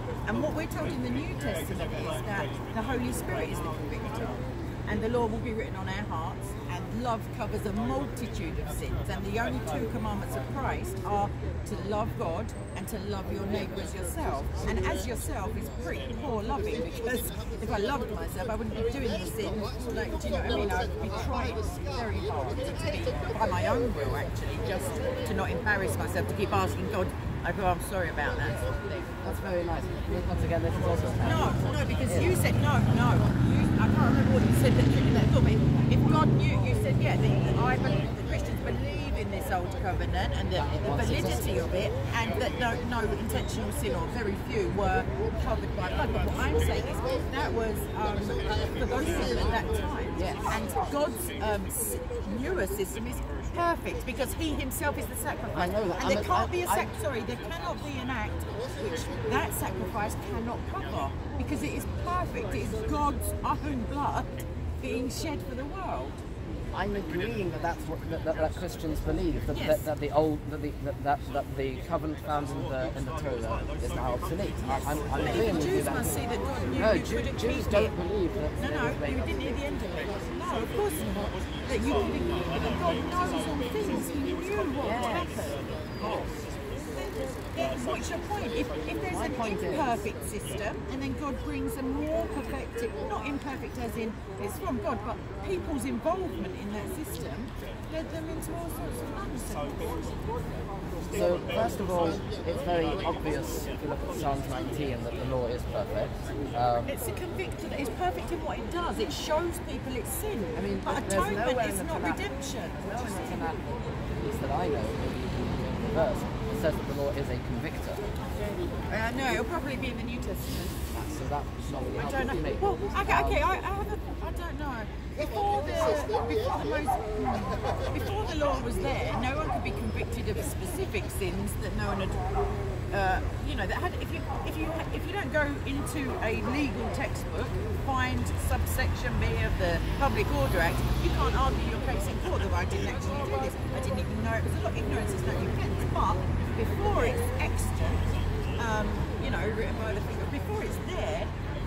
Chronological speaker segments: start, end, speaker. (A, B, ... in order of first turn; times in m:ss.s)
0:00.3-0:29.1 A
0:29.2-0:32.4 B
0:31.2-1:06.2 A
0:40.5-0:41.6 B
0:50.2-0:50.6 B
0:55.5-0:56.9 B
1:06.7-1:16.2 B
1:09.5-1:09.9 A
1:14.7-1:17.9 A
1:16.8-1:19.6 B
1:18.6-1:25.6 A
1:24.8-1:25.4 B
1:26.0-1:26.4 B
1:26.9-1:40.2 A
1:29.1-1:30.0 B
1:41.1-1:46.9 B
1:46.8-1:53.5 A
1:50.5-1:58.0 B
1:58.9-2:00.8 A
2:00.9-2:03.4 B
2:02.0-2:28.0 A
2:28.6-2:31.3 A